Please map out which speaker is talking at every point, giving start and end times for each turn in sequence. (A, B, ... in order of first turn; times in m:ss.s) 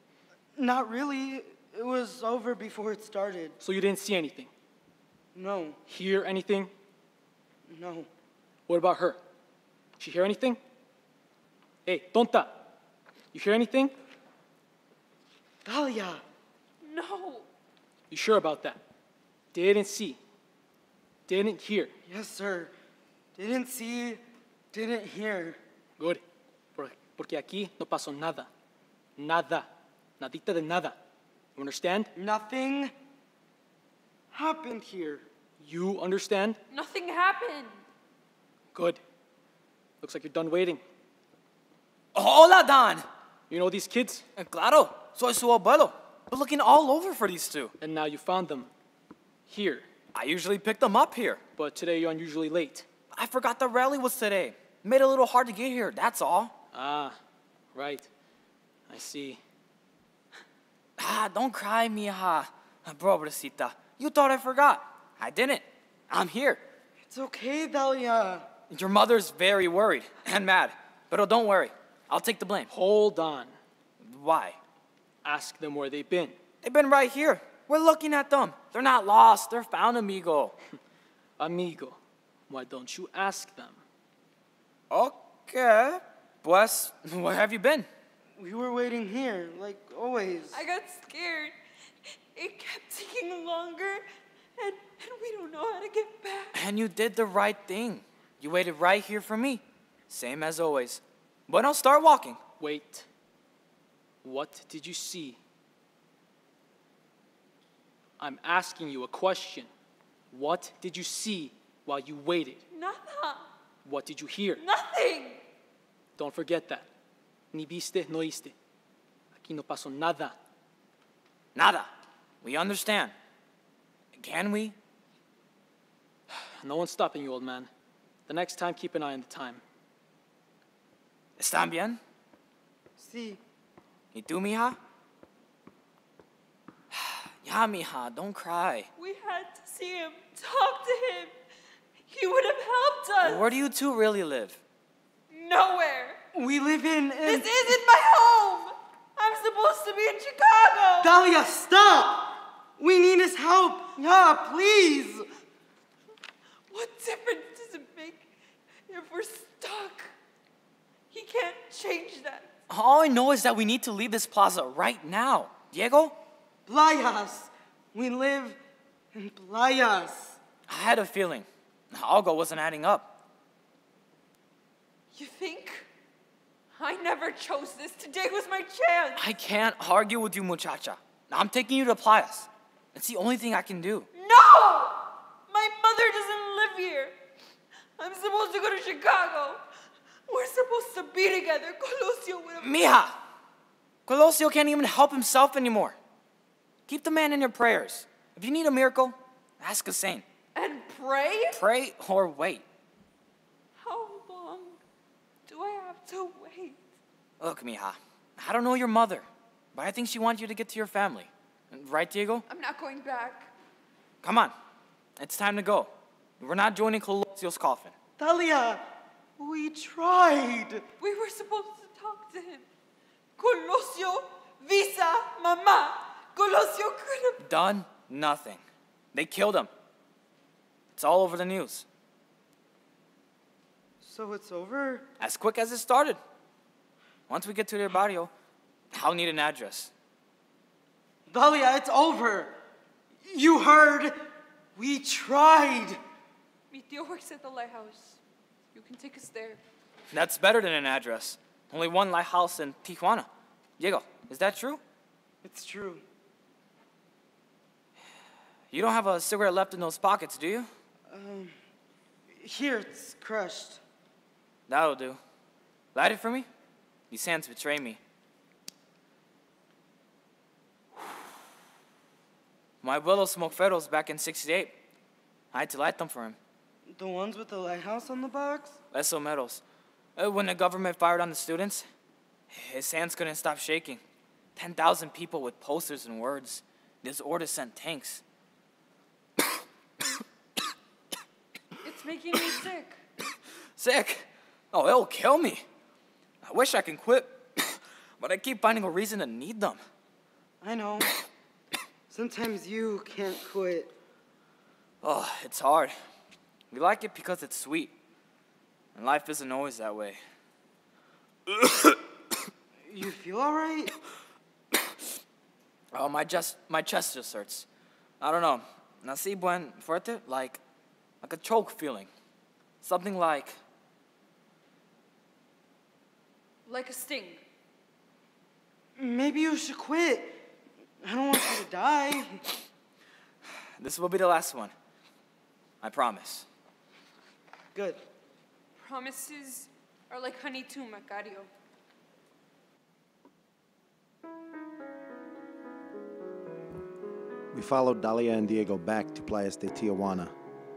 0:00.6-0:03.6 A
0:03.6-0:04.5 B
0:05.4-0:05.8 A
0:05.9-0:06.7 B
0:07.7-0:08.1 A
0:08.7-0:09.2 B
0:10.0-0:10.6 B
0:11.9-0:12.6 B
0:13.3-0:13.9 B
0:15.6-0:16.2 A
0:16.8-0:17.5 C
0:18.1-0:18.8 B
0:19.5-0:20.2 B
0:21.3-0:21.9 B
0:22.1-0:22.7 A
0:23.4-0:24.2 A
0:24.7-0:25.6 A
0:26.8-0:28.5 B
0:29.2-0:29.7 B
0:30.2-0:31.0 B
0:31.6-0:32.1 B
0:32.2-0:32.9 A
0:34.3-0:35.2 A
0:35.6-0:36.6 B
0:36.7-0:37.8 C
0:38.8-0:39.0 B
0:40.0-0:40.8 B
0:42.2-0:43.0 D
0:43.5-0:44.2 B
0:44.4-0:47.7 D
0:47.8-0:48.7 B
0:49.5-0:49.8 B
0:50.1-0:51.4 D
0:51.6-0:52.9 B
0:53.2-0:56.5 D
0:56.7-0:57.2 B
0:57.7-0:58.1 B
0:58.9-0:59.4 B
1:01.0-1:06.6 D
1:07.1-1:08.4 A
1:08.7-1:12.7 D
1:12.7-1:13.5 B
1:14.0-1:14.6 D
1:15.2-1:16.4 B
1:16.6-1:20.5 D
1:21.4-1:22.0 B
1:22.5-1:23.8 B
1:24.9-1:27.9 D
1:28.4-1:30.6 A
1:30.5-1:31.6 C
1:32.3-1:34.0 C
1:34.6-1:36.6 C
1:36.5-1:42.4 D
1:42.6-1:43.1 B
1:44.2-1:45.4 B
1:48.2-1:49.7 B
1:50.3-1:52.6 B
1:52.7-1:53.5 C
1:53.8-1:54.6 B
1:54.6-1:55.4 C
1:56.2-1:56.9 B
1:57.5-1:58.5 B
1:59.4-2:00.4 B
2:01.6-2:01.9 D
2:02.4-2:03.1 D
2:04.2-2:04.8 D
2:06.4-2:07.7 B
2:08.3-2:09.6 B
2:11.4-2:12.0 D
2:13.0-2:13.4 A
2:14.1-2:14.8 D
2:16.9-2:18.9 D
2:19.0-2:21.3 C
2:22.1-2:23.6 C
2:23.2-2:24.6 D
2:25.3-2:26.2 C
2:26.4-2:27.5 A
2:27.2-2:31.2 C
2:31.0-2:35.3 A
2:36.7-2:38.3 C
2:38.9-2:40.1 C
2:41.1-2:42.5 C
2:42.7-2:46.2 D
2:46.7-2:48.6 A
2:49.1-2:50.4 A
2:50.7-2:53.1 D
2:55.1-2:55.9 C
2:56.8-2:59.2 C
2:59.2-3:04.1 D
3:04.1-3:07.1 C
3:08.0-3:09.6 C
3:10.3-3:12.9 C
3:12.6-3:13.1 D
3:14.1-3:16.0 D
3:16.9-3:20.2 D
3:20.6-3:21.6 C
3:21.5-3:22.6 D
3:23.8-3:24.8 C
3:25.5-3:26.8 C
3:27.4-3:32.4 D
3:32.5-3:33.5 C
3:34.2-3:34.5 D
3:35.2-3:38.0 D
3:38.2-3:38.8 A
3:39.4-3:40.8 A
3:41.0-3:42.7 C
3:43.4-3:47.4 C
3:47.4-3:48.6 D
3:49.1-3:49.7 D
3:51.0-3:51.8 D
3:54.0-3:55.0 A
3:55.2-3:56.2 D
3:57.3-3:58.3 D
3:58.9-3:59.9 D
4:01.3-4:02.6 A
4:03.2-4:04.2 A
4:04.8-4:06.0 A
4:06.7-4:08.2 C
4:08.7-4:09.6 C
4:10.1-4:14.8 D
4:15.4-4:16.0 A
4:18.7-4:20.7 D
4:21.1-4:21.6 A
4:22.3-4:23.8 A
4:24.7-4:25.2 D
4:25.9-4:26.5 D
4:27.1-4:28.0 D
4:32.8-4:34.7 D
4:35.5-4:36.4 D
4:36.9-4:38.8 A
4:38.9-4:39.6 D
4:40.2-4:41.9 D
4:42.5-4:44.0 D
4:44.6-4:48.2 D
4:51.8-4:53.0 C
4:53.8-4:55.6 D
4:56.4-4:59.8 D
5:00.6-5:01.1 A
5:02.1-5:03.9 A
5:05.0-5:06.0 D
5:06.7-5:07.9 D
5:09.0-5:10.2 D
5:11.6-5:11.9 D
5:12.9-5:13.9 A
5:15.9-5:17.7 D
5:18.2-5:20.6 D
5:21.2-5:22.1 D
5:22.8-5:23.6 D
5:26.7-5:27.4 C
5:29.0-5:30.4 A
5:31.0-5:32.4 A
5:33.8-5:34.7 D
5:35.8-5:36.4 D
5:38.8-5:41.5 C
5:47.5-5:50.3 E